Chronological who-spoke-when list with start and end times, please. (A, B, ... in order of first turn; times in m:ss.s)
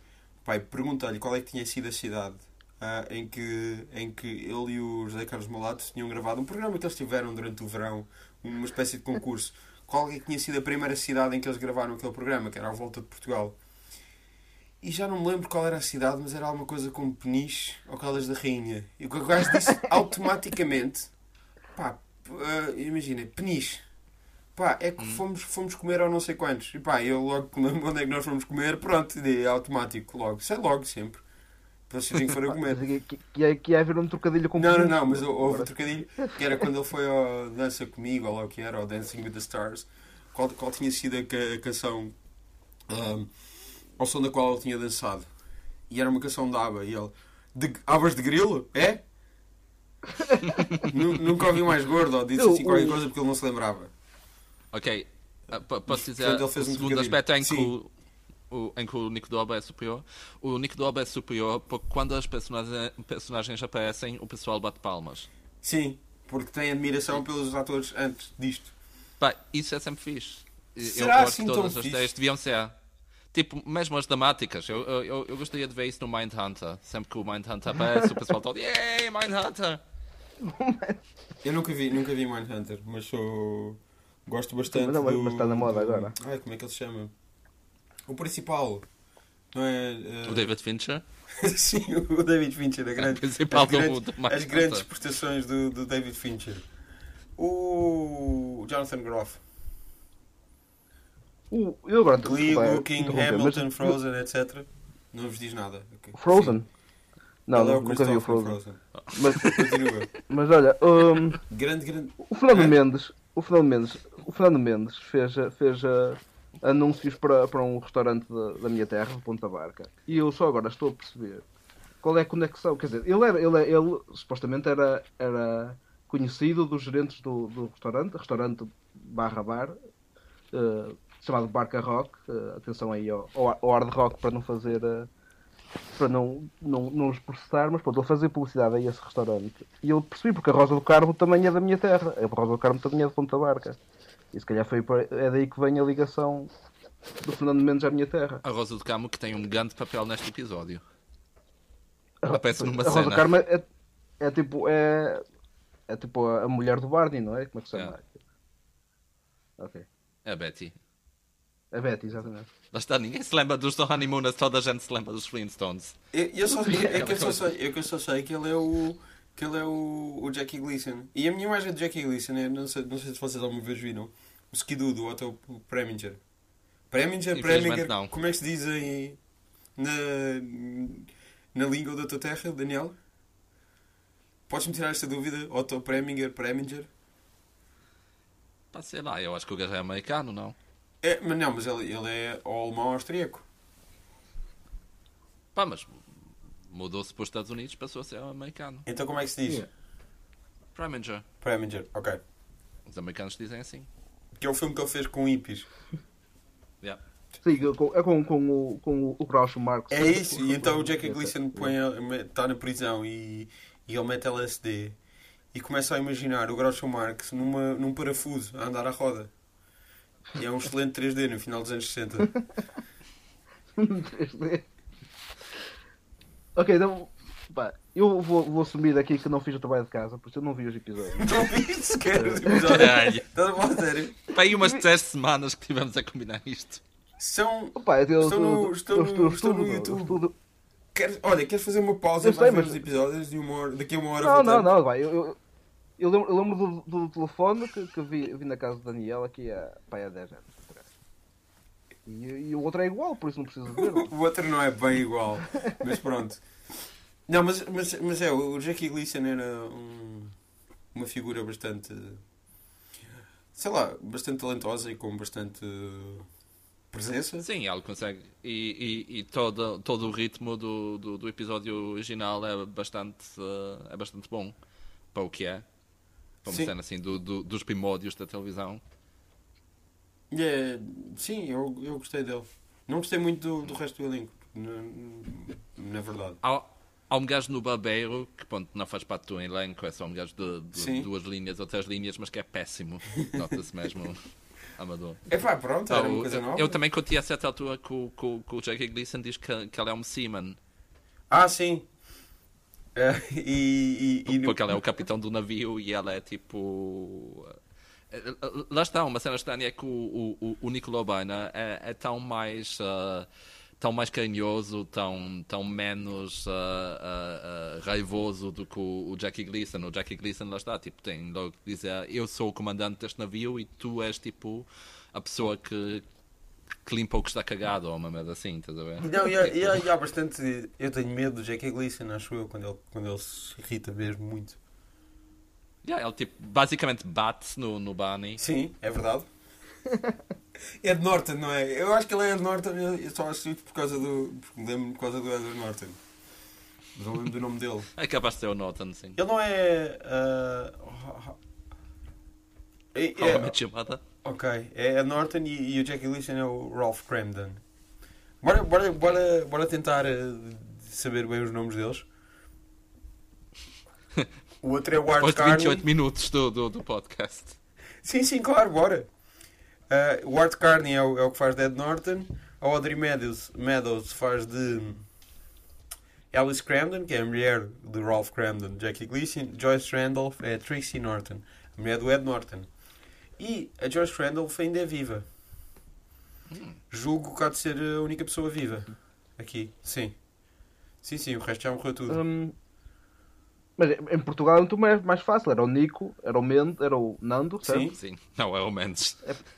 0:00.4-0:13.6 A
0:14.8-0:21.1 A
0:21.8-0:23.8 A
0:24.6-0:31.2 A
0:31.9-0:32.8 A
0:32.5-0:35.7 B
0:34.6-0:42.2 A
0:42.9-0:43.3 A
0:44.0-0:45.3 A
0:45.9-0:49.0 A
0:50.2-0:50.8 B
0:50.5-0:50.8 C
0:50.8-0:53.9 A
0:52.4-0:53.0 B
0:54.7-0:57.9 C
0:55.9-0:57.7 A
0:58.5-1:05.3 C
1:05.6-1:08.7 A
1:09.2-1:12.7 C
1:10.8-1:12.1 A
1:13.3-1:19.8 C
1:20.4-1:21.0 B
1:21.4-1:27.1 A
1:24.7-1:26.2 B
1:28.1-1:28.9 A
1:29.5-1:30.4 A
1:30.3-1:31.0 C
1:31.4-1:36.7 A
1:33.0-1:34.8 C
1:37.4-1:39.4 A
1:41.5-1:44.0 B
1:42.2-1:46.5 A
1:46.2-1:46.7 B
1:47.5-1:48.6 B
1:47.5-1:48.8 A
1:49.0-1:49.8 C
1:49.1-1:49.5 B
1:49.4-1:50.1 A
1:50.3-1:51.4 B
1:51.4-1:52.2 A
1:52.2-2:01.4 B
2:02.0-2:09.8 B
2:10.5-2:15.1 B
2:16.0-2:23.8 B
2:24.3-2:26.5 B
2:27.2-2:28.4 B
2:28.4-2:30.8 C
2:32.2-2:33.7 B
2:32.3-2:33.4 C
2:34.2-2:35.2 B
2:35.9-2:38.2 B
2:39.6-2:39.9 B
2:40.2-2:40.8 C
2:41.7-2:42.5 B
2:42.7-2:46.0 C
2:46.1-2:56.2 A
2:46.5-2:47.0 B
2:46.8-2:47.5 C
2:56.9-2:59.2 A
2:57.4-2:58.1 C
2:59.8-3:03.0 A
3:04.5-3:06.9 A
3:08.7-3:10.6 C
3:11.0-3:13.4 A
3:15.6-3:16.0 C
3:16.7-3:18.9 C
3:18.9-3:19.6 A
3:20.8-3:21.3 C
3:21.4-3:22.2 A
3:22.9-3:23.9 C
3:24.4-3:25.7 A
3:27.4-3:31.7 B
3:29.9-3:35.0 A
3:35.5-3:39.3 A
3:40.4-3:42.3 A
3:43.8-3:44.7 B
3:46.6-3:51.3 B
3:51.2-3:54.3 A
3:52.2-3:52.8 B
3:52.6-3:53.3 C
3:54.3-3:56.8 C
3:54.5-3:54.8 B
3:57.2-4:00.2 A
3:57.8-4:00.3 B
4:00.9-4:04.7 A
4:02.2-4:02.8 B
4:04.2-4:05.4 B
4:06.0-4:10.9 B
4:12.1-4:14.1 B
4:13.7-4:16.4 A
4:17.3-4:20.4 A
4:20.9-4:22.2 A
4:23.6-4:26.3 A
4:26.9-4:27.4 A
4:27.4-4:34.6 C
4:35.1-4:35.6 C
4:36.4-4:38.8 C
4:36.4-4:36.7 A
4:40.3-4:46.4 A
4:46.4-4:54.2 C
4:50.7-4:51.1 A
4:54.8-4:55.2 C
4:55.3-4:56.8 A
4:55.9-5:00.6 C
5:01.3-5:01.9 A
5:03.0-5:04.6 A
5:04.3-5:07.6 C
5:08.1-5:13.3 C
5:13.8-5:26.0 C
5:26.9-5:29.5 C
5:29.0-5:34.6 A
5:35.8-5:38.4 C
5:38.4-5:39.3 A
5:40.8-5:46.0 A
5:47.0-5:47.9 A
5:48.0-5:49.2 C
5:49.2-5:51.4 A
5:52.9-5:53.6 A
5:53.2-5:54.0 C
5:54.2-5:57.6 A
5:58.4-6:02.1 A
6:04.6-6:05.9 A
6:05.1-6:07.6 C
6:08.0-6:09.1 A
6:09.9-6:15.0 A
6:16.3-6:22.7 A
6:23.4-6:25.3 A
6:26.5-6:26.8 C
6:26.9-6:30.2 A
6:31.0-6:32.2 A
6:32.1-6:32.6 B
6:33.8-6:37.9 B
6:37.6-6:38.0 A
6:38.0-6:39.2 C